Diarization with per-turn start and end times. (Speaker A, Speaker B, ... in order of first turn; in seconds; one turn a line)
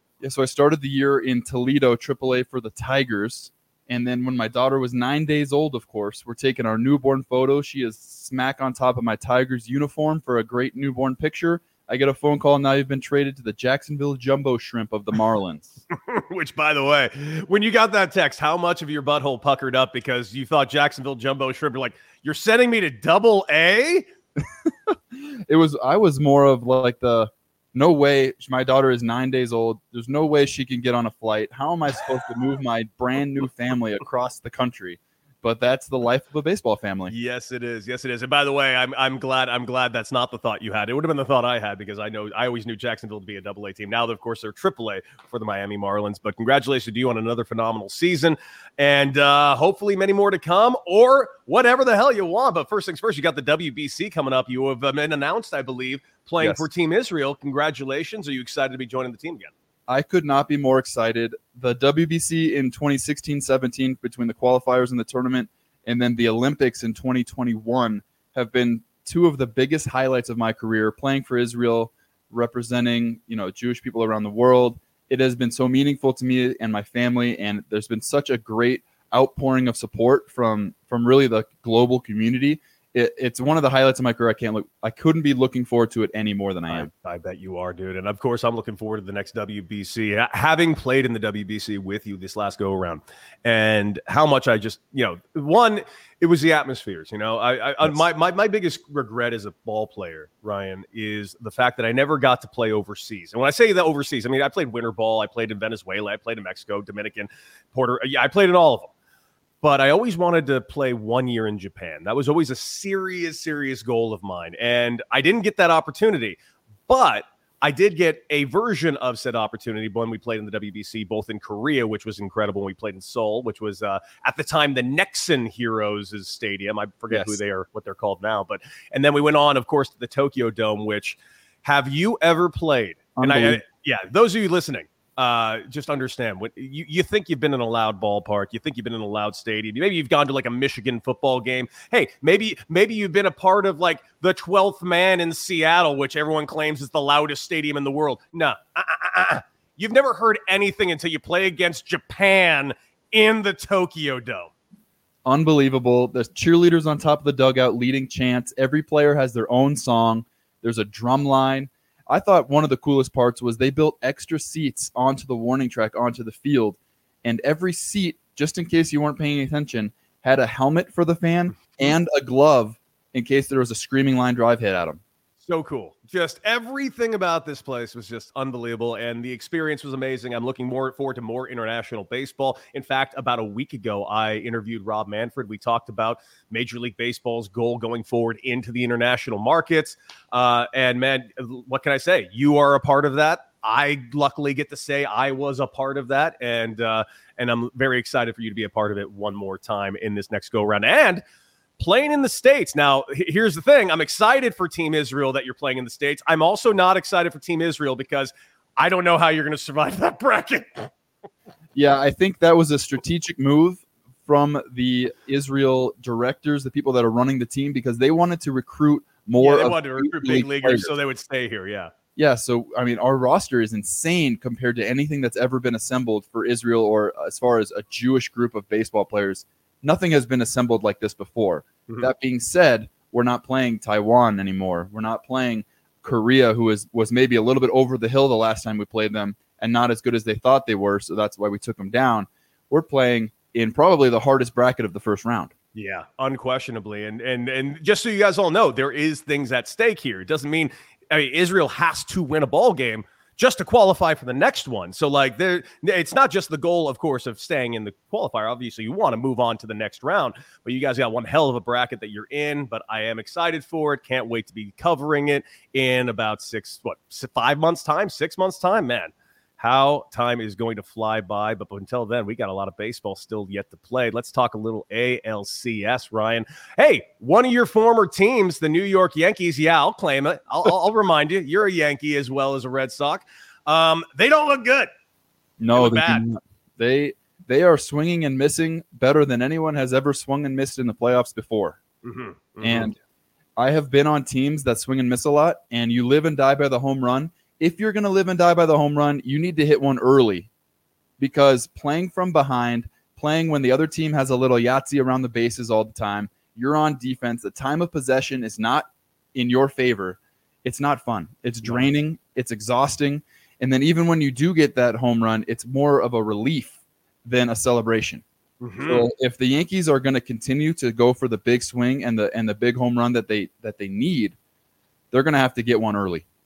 Speaker A: 0.2-15.8
Speaker B: 16.1-24.1
Speaker A: 24.9-37.1
Speaker B: 37.1-59.5
Speaker A: 59.9-86.9
Speaker B: 86.7-108.9
Speaker B: 109.6-154.5
Speaker A: 127.1-127.4
Speaker A: 133.2-133.6
Speaker A: 155.2-175.0
Speaker B: 175.4-201.2
Speaker B: 201.8-210.9
Speaker A: 211.8-220.9
Speaker B: 219.4-221.9
Speaker A: 222.2-245.5
Speaker B: 245.8-284.9
Speaker A: 285.6-291.8
Speaker B: 285.7-286.2
Speaker B: 292.0-293.0
Speaker A: 292.6-293.0
Speaker A: 293.6-300.5
Speaker A: 301.2-318.2
Speaker B: 311.6-311.9
Speaker B: 318.6-319.1
Speaker A: 318.8-324.4
Speaker A: 325.1-326.2